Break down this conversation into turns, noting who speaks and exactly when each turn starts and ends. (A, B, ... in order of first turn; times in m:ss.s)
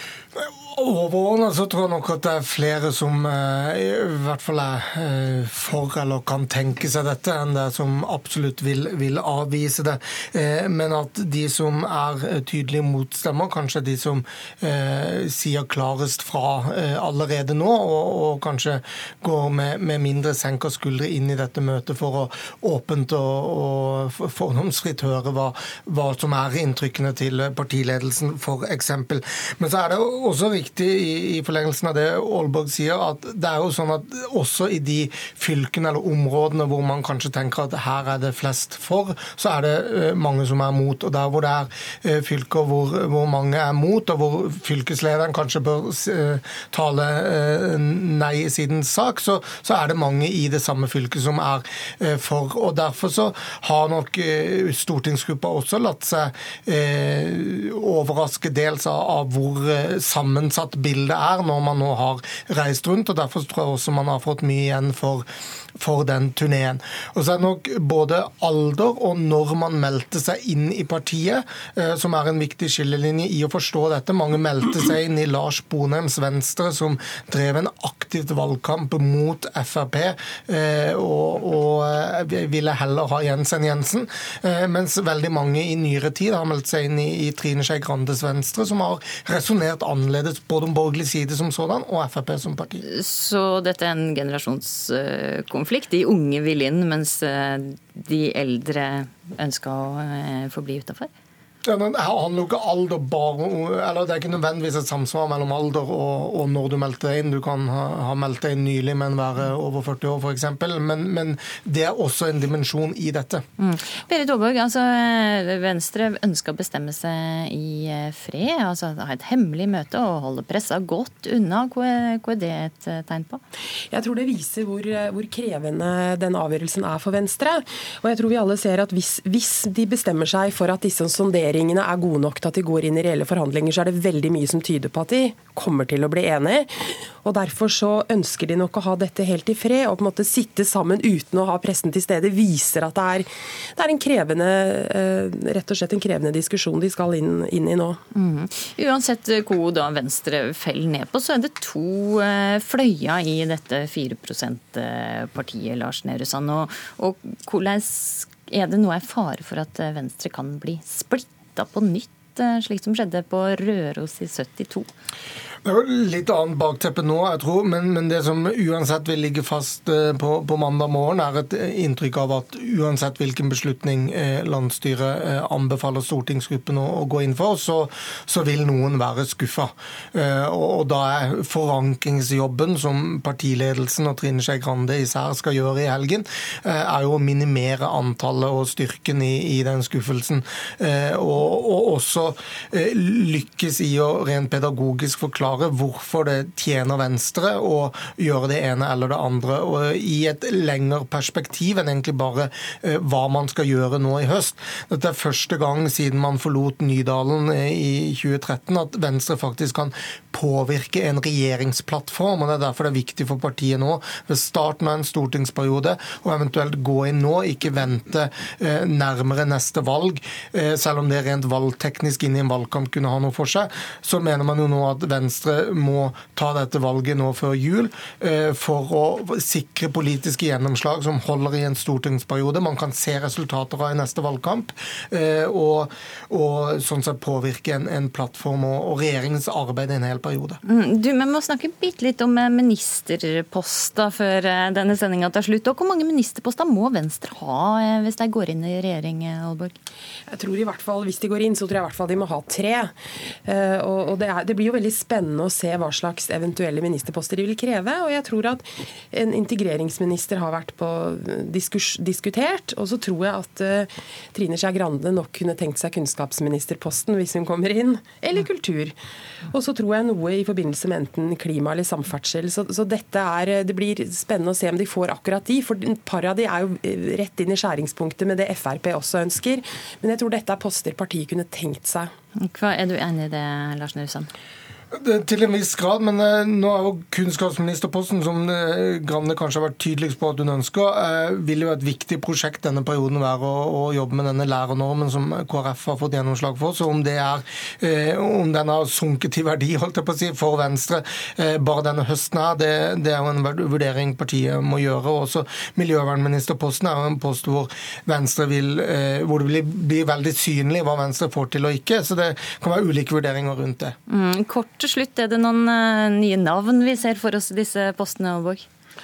0:00.4-1:05.2 A
1:05.8-1:32.8 A
1:32.8-1:41.1 B
1:41.6-1:53.4 A
1:53.6-2:03.4 B
2:03.9-2:28.0 C
2:28.1-2:44.9 B
2:45.6-4:00.6 A
4:00.6-4:09.8 B
4:10.3-4:12.9 C
4:13.4-4:29.0 C
4:29.5-4:42.1 C
4:42.4-4:44.3 B
4:44.9-5:13.9 A
5:14.1-5:18.6 B